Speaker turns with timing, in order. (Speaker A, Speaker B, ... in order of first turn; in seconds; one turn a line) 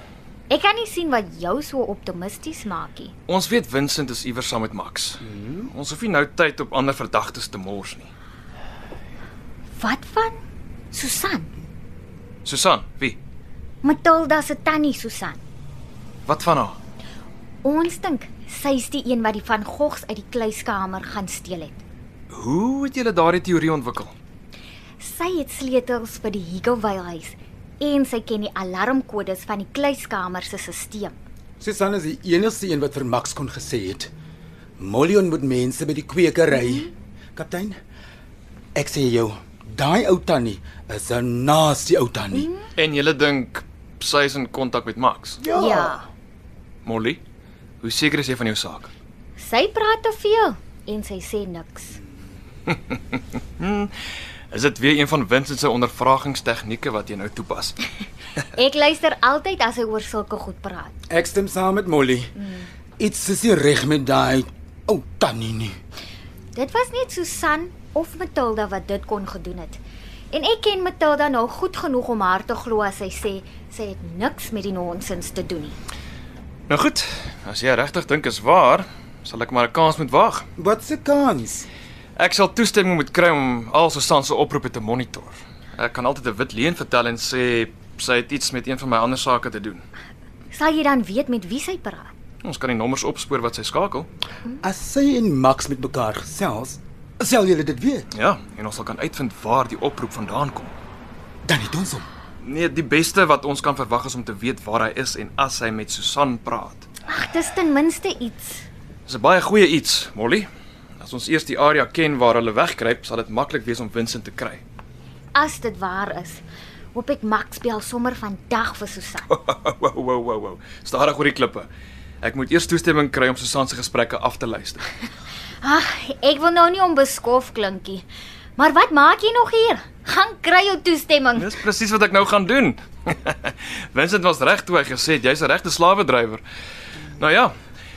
Speaker A: 0.5-3.1
Speaker B: 3.3-8.1
Speaker C: 5.2-5.7
Speaker A: 9.8-10.4
Speaker A: 10.9-11.5
Speaker B: 12.4-13.2
Speaker A: 13.8-15.4
Speaker B: 16.2-16.8
Speaker A: 17.6-21.8
Speaker B: 22.3-24.1
Speaker A: 25.0-31.2
Speaker C: 31.6-34.1
Speaker C: 34.8-37.8
Speaker C: 38.7-42.5
Speaker A: 42.3-42.6
Speaker B: 42.7-45.4
Speaker C: 45.4-46.0
Speaker A: 45.5-46.0
Speaker B: 46.8-47.2
Speaker B: 47.8-48.9
Speaker A: 49.4-52.0
Speaker B: 52.7-53.9
Speaker B: 54.5-57.8
Speaker A: 58.5-60.9
Speaker C: 61.1-62.3
Speaker A: 62.4-62.7
Speaker C: 63.0-65.8
Speaker A: 66.5-75.8
Speaker B: 76.7-80.5
Speaker C: 80.6-81.7
Speaker B: 82.2-89.8
Speaker A: 90.5-92.1
Speaker B: 92.4-94.1
Speaker C: 94.6-98.1
Speaker B: 98.1-100.7
Speaker C: 101.4-102.1
Speaker B: 102.4-106.8
Speaker A: 107.1-108.7
Speaker B: 109.1-110.5
Speaker B: 111.0-114.6
Speaker A: 115.3-116.4
Speaker A: 116.9-119.3
Speaker B: 119.3-121.7
Speaker B: 122.2-124.9
Speaker A: 125.6-128.0
Speaker A: 128.6-131.5
Speaker B: 131.4-136.4
Speaker B: 137.2-137.5